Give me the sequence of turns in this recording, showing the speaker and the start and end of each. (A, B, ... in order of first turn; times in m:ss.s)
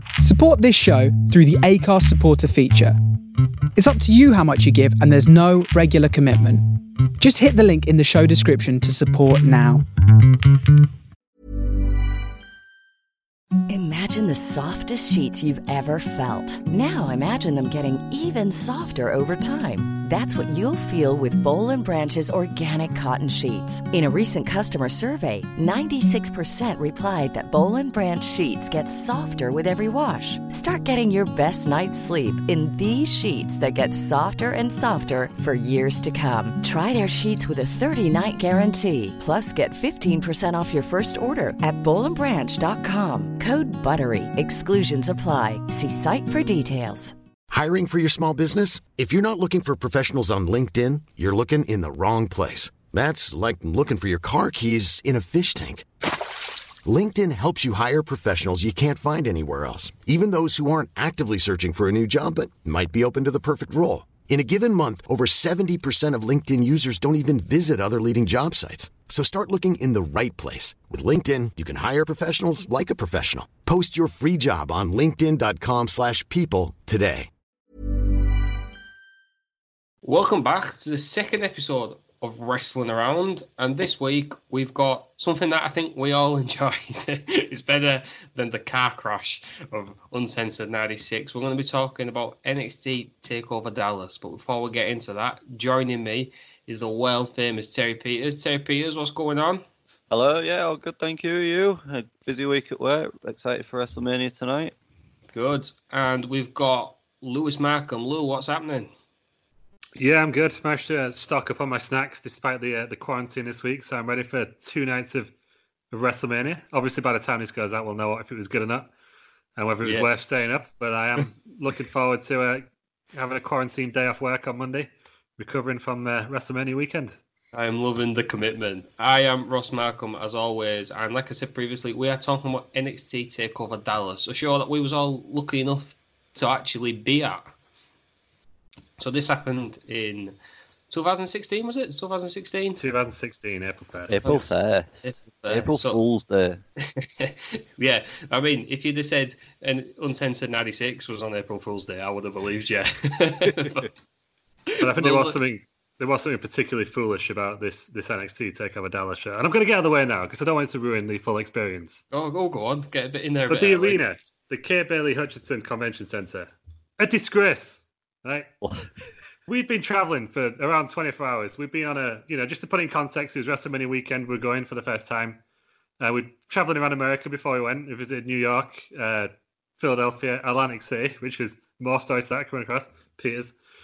0:00.2-0:03.0 A
0:03.8-0:06.6 A
0:07.2-0:09.8 A
0:13.7-0:47.1 B
0:47.5-0:55.8 C
0:56.8-1:17.3 C
1:20.0-1:39.6 D
1:40.1-1:44.7 E
1:45.3-1:48.9 D
1:50.0-1:55.3 F
1:55.9-1:58.9 F
1:59.6-2:07.1 F
2:07.5-2:17.5 D
2:19.0-2:20.4 D
2:20.9-2:22.8 D
2:22.8-2:24.2 F
2:24.1-2:26.6 E
2:25.0-2:26.0 D
2:26.8-2:33.9 D
2:34.7-2:35.4 D
2:34.8-2:42.0 F
2:42.1-2:44.0 D
2:43.5-2:48.5 F
2:49.5-2:55.4 F
2:56.0-3:03.5 F